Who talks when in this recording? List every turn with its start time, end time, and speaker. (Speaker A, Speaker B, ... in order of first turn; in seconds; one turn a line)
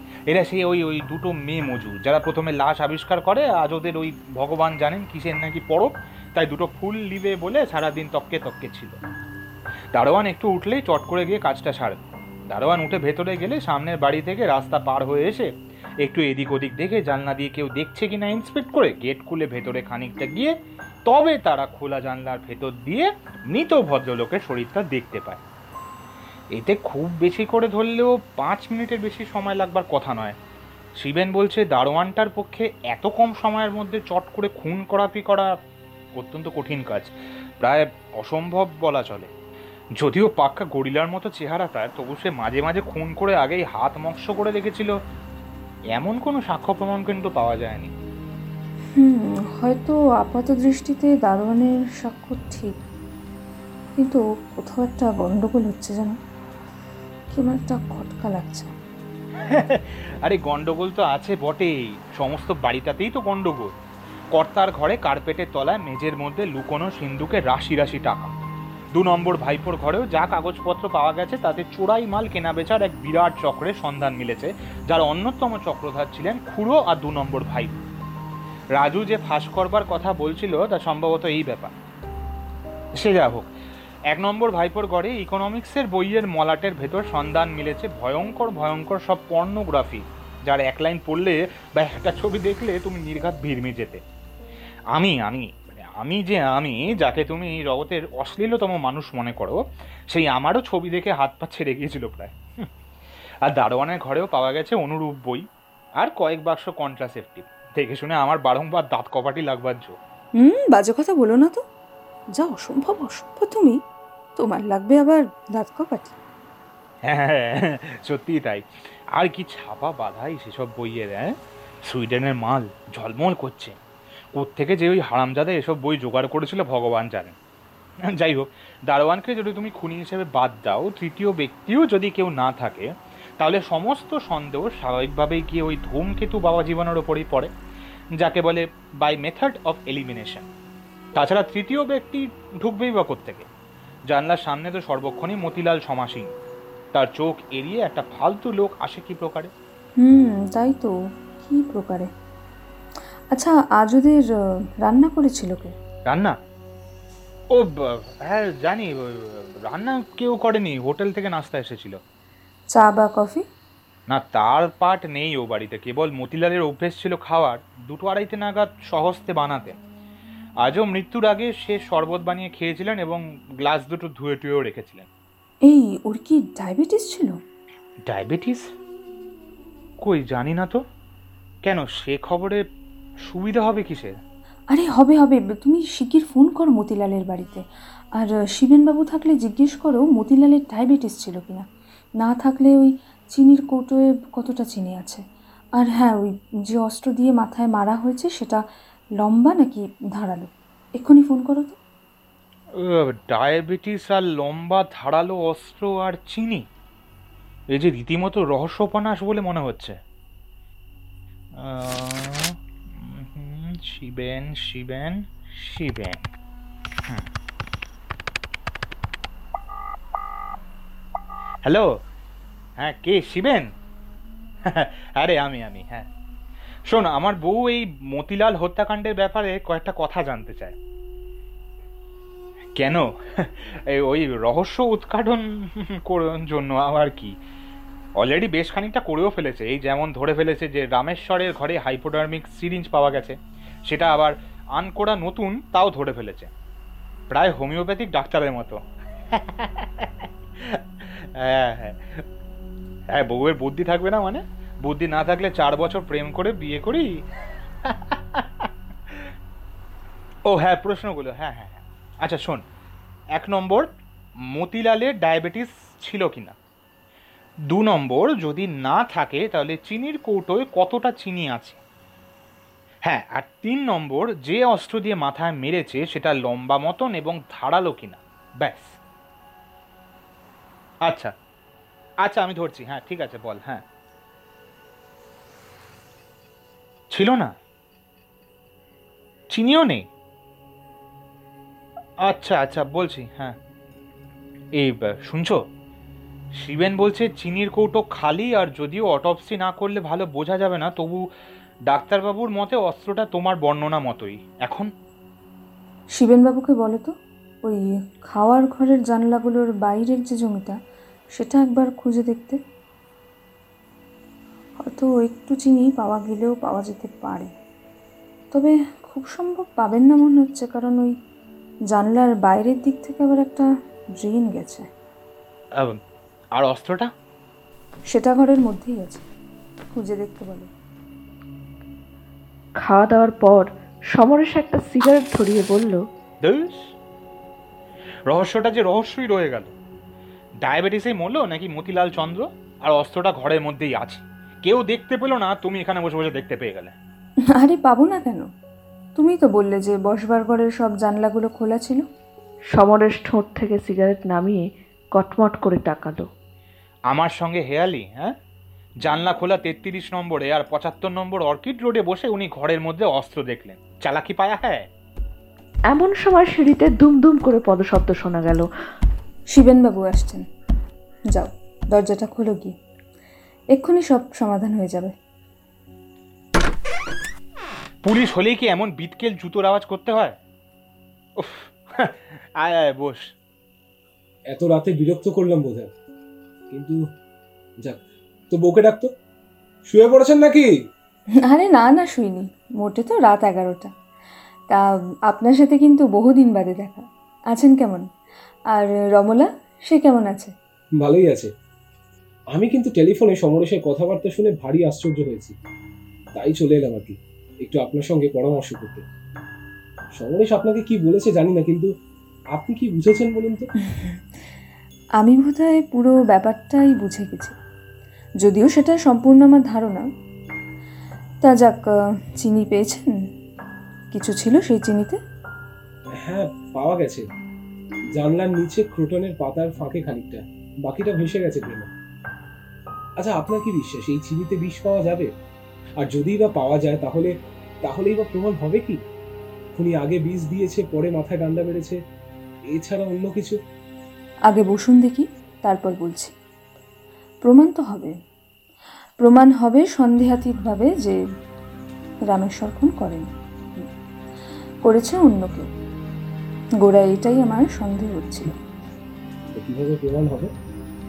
Speaker A: 0.3-9.0
Speaker A: 9.9-12.0
Speaker A: 12.5-15.5
Speaker A: 16.0-20.5
Speaker A: 21.1-25.4
Speaker A: 26.5-30.4
Speaker A: 31.0-35.5
Speaker A: 36.1-39.3
Speaker A: 40.0-44.9
Speaker A: 45.9-47.9
Speaker B: 49.0-52.8
Speaker B: 54.0-56.2
Speaker B: 57.3-58.7
Speaker A: 59.4-63.8
Speaker A: 64.3-68.3
Speaker A: 68.9-77.8
Speaker A: 78.7-81.7
Speaker A: 83.0-83.5
Speaker A: 84.1-94.0
Speaker A: 94.9-102.7
Speaker A: 103.4-105.4
Speaker A: 106.0-110.0
Speaker B: 110.4-111.6
Speaker B: 112.3-113.8
Speaker B: 114.4-116.2
Speaker A: 117.0-121.3
Speaker A: 121.8-123.8
Speaker A: 124.3-127.4
Speaker A: 128.0-132.9
Speaker A: 133.4-137.5
Speaker A: 138.2-140.5
Speaker A: 141.2-143.5
Speaker A: 144.1-146.3
Speaker A: 146.9-149.5
Speaker B: 150.0-152.1
Speaker B: 153.3-154.2
Speaker B: 154.8-155.7
Speaker A: 156.1-156.3
Speaker A: 157.5-162.0
Speaker B: 162.7-163.4
Speaker A: 164.1-169.8
Speaker A: 170.6-175.1
Speaker B: 175.6-177.4
Speaker A: 178.1-178.6
Speaker A: 180.0-180.8
Speaker A: 181.6-182.6
Speaker A: 183.2-184.1
Speaker B: 184.7-191.6
Speaker B: 192.2-195.2
Speaker B: 195.8-198.6
Speaker B: 199.2-201.8
Speaker A: 202.8-206.7
Speaker A: 207.7-209.9
Speaker A: 211.6-216.3
Speaker A: 221.6-221.9
Speaker A: 222.8-223.7
Speaker A: 224.6-226.1
Speaker A: 226.9-230.7
Speaker A: 232.8-237.3
Speaker A: 238.2-246.5
Speaker A: 247.3-248.8
Speaker A: 249.3-252.2
Speaker A: 253.1-257.1
Speaker A: 257.8-259.3
Speaker A: 260.4-262.6
Speaker A: 263.3-263.9
Speaker A: 264.5-266.5
Speaker A: 267.7-271.8
Speaker A: 273.0-279.0
Speaker A: 281.1-281.3
Speaker A: 282.2-283.8
Speaker A: 287.1-287.5
Speaker A: 289.5-290.1
Speaker A: 292.2-293.6
Speaker A: 294.8-295.6
Speaker A: 296.6-301.2
Speaker A: 301.9-304.9
Speaker B: 306.1-307.1
Speaker B: 307.6-310.8
Speaker B: 311.3-312.6
Speaker B: 314.8-317.5
Speaker B: 318.5-321.1
Speaker B: 321.9-323.6
Speaker B: 324.2-324.9
Speaker A: 326.5-327.1
Speaker B: 328.1-329.2
Speaker B: 329.9-330.7
Speaker C: 332.8-336.0
Speaker A: 336.4-336.9
Speaker A: 338.3-339.7
Speaker A: 340.6-346.9
Speaker B: 347.5-348.5
Speaker B: 349.1-352.0
Speaker C: 352.7-356.3
Speaker A: 357.1-358.3
Speaker A: 359.0-364.9
Speaker C: 365.9-368.7
Speaker B: 369.5-370.4
Speaker B: 371.3-372.7
Speaker B: 373.7-375.1
Speaker A: 378.0-380.4
Speaker A: 381.4-383.3
Speaker D: 384.5-385.9
Speaker D: 386.7-387.0
Speaker D: 387.8-389.1
Speaker D: 389.9-390.7
Speaker B: 391.5-393.9
Speaker B: 394.7-398.0
Speaker B: 398.7-400.5
Speaker D: 401.0-401.5
Speaker D: 402.5-405.5
Speaker D: 406.4-409.0
Speaker D: 410.1-411.9
Speaker D: 412.5-413.7
Speaker B: 413.9-414.2
Speaker B: 415.2-417.5
Speaker B: 418.4-420.1
Speaker B: 421.4-421.8
Speaker B: 422.4-423.1
Speaker B: 424.1-425.2
Speaker D: 426.1-427.2
Speaker D: 428.1-431.9
Speaker D: 433.2-435.3
Speaker D: 436.0-439.0
Speaker D: 439.7-442.0
Speaker D: 442.7-443.6
Speaker B: 444.5-446.3
Speaker B: 447.4-448.1
Speaker B: 449.2-451.2
Speaker B: 452.3-453.3
Speaker B: 454.8-455.7
Speaker B: 456.8-458.5
Speaker D: 459.5-460.5